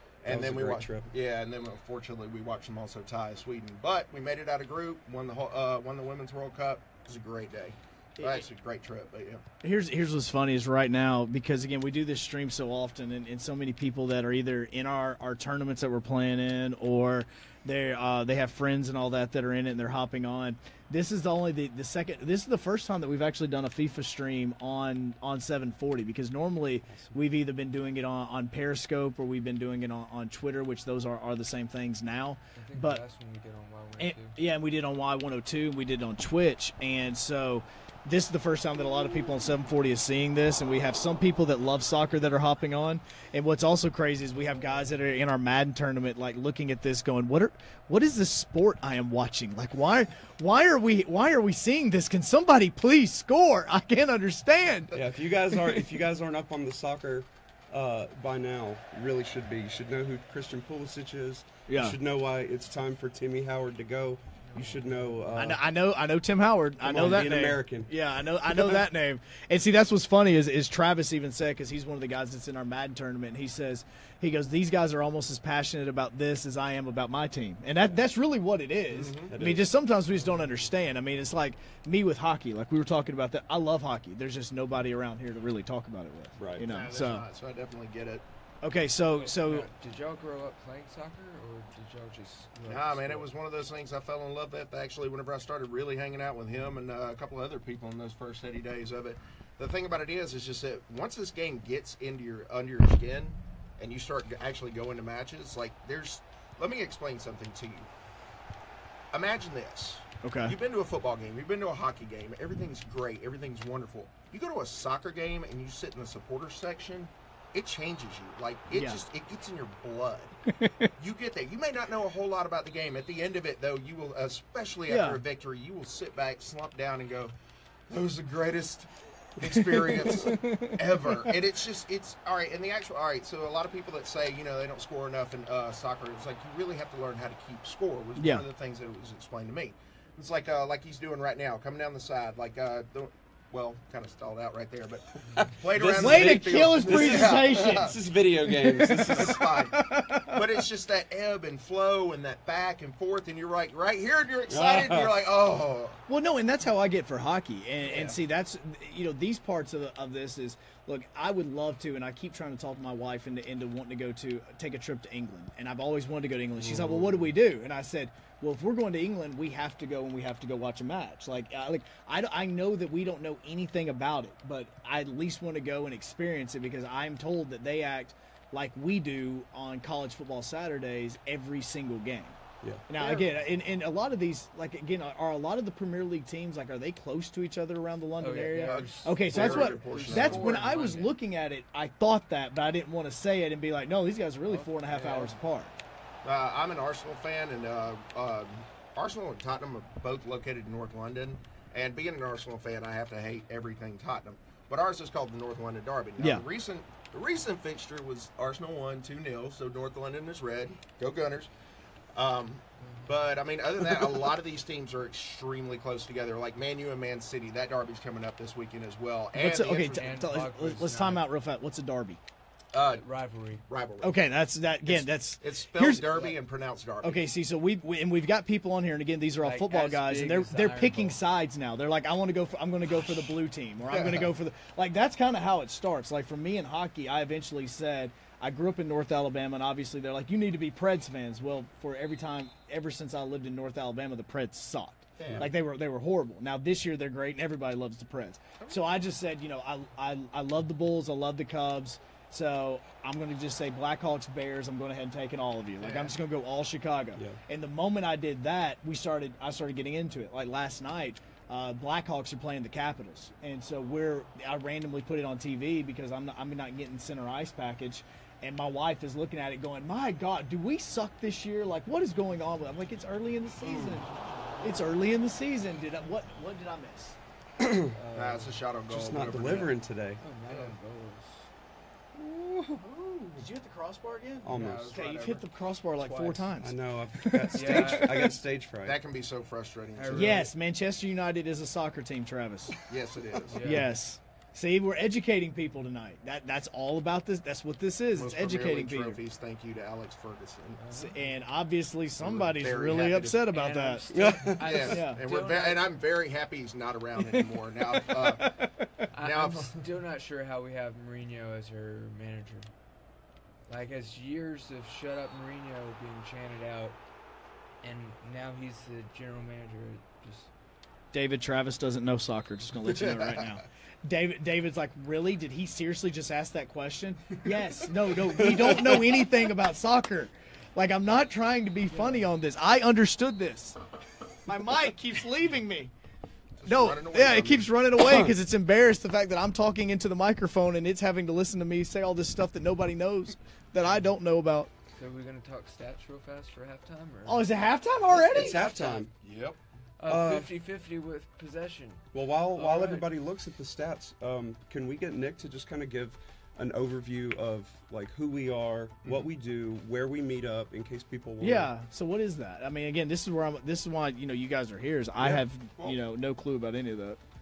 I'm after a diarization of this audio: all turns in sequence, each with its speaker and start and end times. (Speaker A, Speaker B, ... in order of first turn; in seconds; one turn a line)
Speaker A: 0.2-9.4
Speaker B: 0.3-1.1
Speaker C: 8.2-8.4
Speaker C: 9.6-33.0
Speaker D: 32.5-34.4
Speaker C: 34.0-55.8
Speaker B: 54.9-65.6
Speaker C: 61.7-62.0
Speaker C: 65.3-87.2
Speaker B: 66.8-67.9
Speaker B: 68.5-68.8
Speaker A: 78.9-79.3
Speaker B: 79.3-79.7
Speaker B: 86.4-86.7
Speaker A: 86.6-88.2
Speaker C: 88.6-89.7
Speaker D: 89.3-93.3
Speaker A: 92.7-107.9
Speaker A: 109.1-120.3
Speaker C: 110.2-110.5
Speaker C: 118.7-119.0
Speaker C: 120.5-120.9
Speaker A: 121.0-127.3
Speaker C: 124.9-125.2
Speaker A: 127.9-148.0
Speaker C: 129.8-130.8
Speaker C: 138.2-138.4
Speaker B: 145.3-149.4
Speaker C: 145.9-150.4
Speaker A: 148.8-156.0
Speaker B: 154.5-155.2
Speaker C: 156.1-182.4
Speaker A: 157.8-158.2
Speaker A: 166.7-167.2
Speaker C: 182.9-195.7
Speaker A: 183.0-183.3
Speaker D: 188.2-191.1
Speaker A: 188.6-190.8
Speaker D: 194.5-195.3
Speaker A: 196.2-211.5
Speaker A: 212.1-220.2
Speaker D: 212.8-213.2
Speaker C: 219.3-222.2
Speaker D: 219.7-221.3
Speaker A: 222.7-223.0
Speaker D: 222.8-223.6
Speaker A: 223.7-224.2
Speaker C: 224.0-226.3
Speaker A: 224.8-227.3
Speaker C: 227.0-274.1
Speaker D: 229.4-231.2
Speaker A: 233.9-234.3
Speaker A: 245.2-245.5
Speaker B: 245.2-245.5
Speaker A: 248.6-248.9
Speaker A: 255.8-256.1
Speaker A: 273.6-274.1
Speaker C: 274.6-277.2
Speaker B: 277.6-277.9
Speaker D: 277.9-278.6
Speaker A: 278.1-279.8
Speaker B: 278.9-280.2
Speaker D: 280.2-281.5
Speaker A: 280.5-280.7
Speaker A: 282.1-283.4
Speaker C: 283.4-288.0
Speaker B: 284.4-285.0
Speaker A: 284.5-285.5
Speaker D: 286.0-286.5
Speaker B: 286.6-289.0
Speaker D: 287.5-288.3
Speaker A: 288.8-290.5
Speaker D: 289.9-290.5
Speaker C: 290.1-292.8
Speaker A: 292.9-293.6
Speaker D: 293.5-293.9
Speaker B: 293.6-293.9
Speaker C: 293.6-299.2
Speaker A: 298.2-300.8
Speaker D: 300.8-301.1
Speaker C: 300.9-304.0
Speaker A: 302.2-303.5
Speaker D: 303.5-305.9
Speaker B: 304.1-304.9
Speaker A: 304.6-308.6
Speaker C: 304.9-305.2
Speaker C: 307.2-308.9
Speaker D: 309.1-312.7
Speaker A: 309.2-309.8
Speaker D: 313.7-317.0
Speaker D: 317.8-320.5
Speaker C: 321.1-333.8
Speaker C: 334.4-335.9
Speaker A: 336.6-337.7
Speaker C: 336.6-344.7
Speaker B: 338.1-338.4
Speaker D: 344.9-347.5
Speaker C: 347.2-348.6
Speaker B: 348.1-349.1
Speaker D: 348.2-349.1
Speaker A: 349.2-349.6
Speaker D: 350.0-353.1
Speaker B: 350.1-350.5
Speaker B: 352.1-361.7
Speaker C: 361.4-367.2
Speaker A: 365.2-366.0